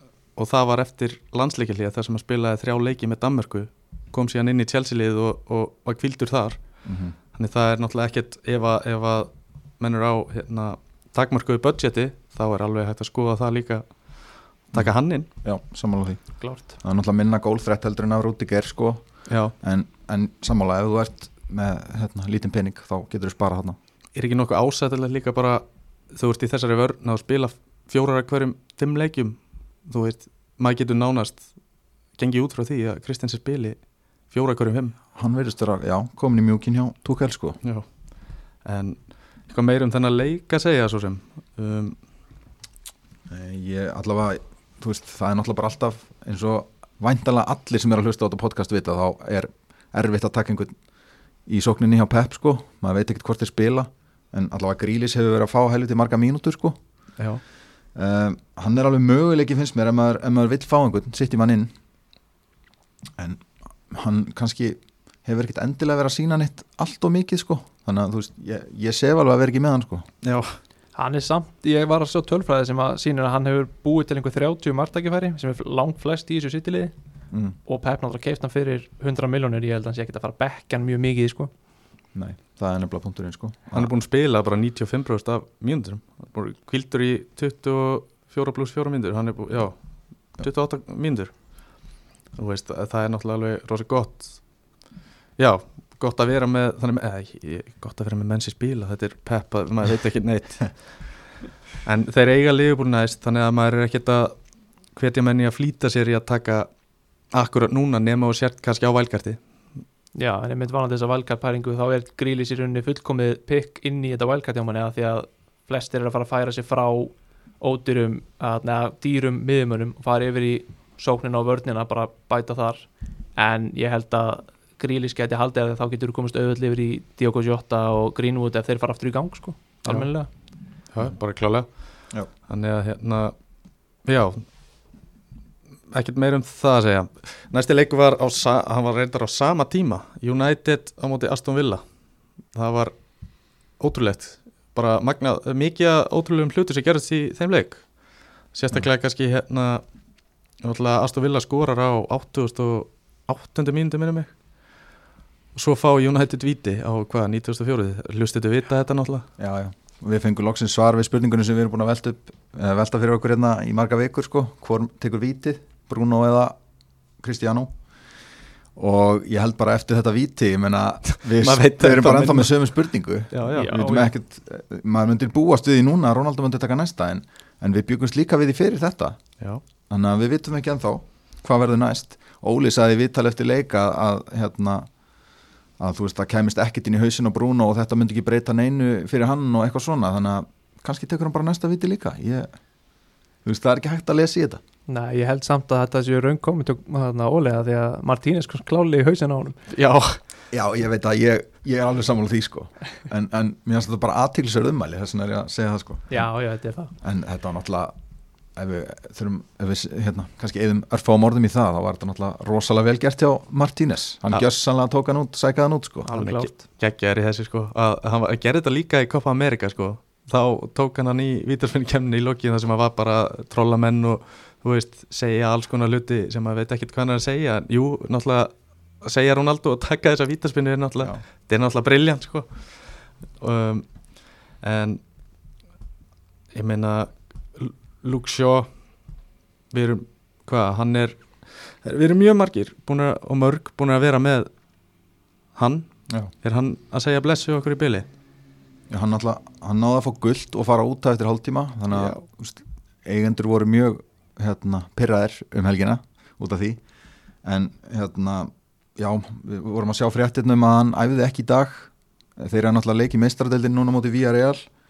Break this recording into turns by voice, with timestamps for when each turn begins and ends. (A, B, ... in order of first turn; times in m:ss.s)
0:00.4-0:06.6 A
0:06.8-0:07.2 B
0:07.3-0:13.8 A
0:14.7-0:15.3 A
0:14.7-0:16.2 B
0:16.4-0:16.7 C
0:16.8-0:19.0 B
0:19.3-0:19.5 A
0:19.6-0:23.8 B
0:24.2-0:31.5 A
0:32.2-0:33.8 A
0:34.3-0:34.9 A
0:35.1-0:37.6 B
0:38.6-0:42.0 A
0:43.3-0:50.7 B
0:51.5-0:56.8 B
0:57.9-1:01.7 B
1:03.2-1:10.1 B
1:10.2-1:10.5 A
1:11.0-1:16.9 C
1:17.6-1:21.5 C
1:22.1-1:23.9 B
1:23.7-1:29.8 A
1:30.4-1:31.3 A
1:32.4-1:34.4 A
1:35.4-1:40.7 A
1:41.8-1:44.3 A
1:45.0-1:46.7 A
1:47.3-1:49.4 A
1:50.1-2:10.3 C
2:10.9-2:11.7 A
2:12.5-2:13.3 A
2:14.0-2:14.4 A
2:15.9-2:21.8 A
2:22.5-2:22.9 A
2:23.8-2:27.8 A
2:28.5-2:29.8 A
2:30.6-2:34.3 A
2:35.5-2:39.3 A
2:39.4-2:46.6 B
2:47.2-2:47.7 B
2:48.8-2:59.2 B
2:51.2-2:52.6 A
2:53.3-2:53.8 A
2:53.5-2:54.1 C
2:59.9-3:04.9 B
3:05.8-3:12.5 B
3:13.4-3:14.6 B
3:14.9-3:19.6 C
3:19.7-3:20.2 A
3:20.5-3:26.1 B
3:26.1-3:26.9 C
3:27.0-3:27.9 B
3:28.6-3:36.1 B
3:36.0-3:36.6 C
3:36.2-3:52.5 A
3:53.4-3:53.8 A
3:54.6-3:55.0 A
3:56.5-3:58.7 A
3:59.7-4:04.5 A
4:05.6-4:05.9 A
4:06.4-4:08.1 A
4:08.9-4:16.8 B
4:11.9-4:12.2 A
4:17.4-4:24.6 B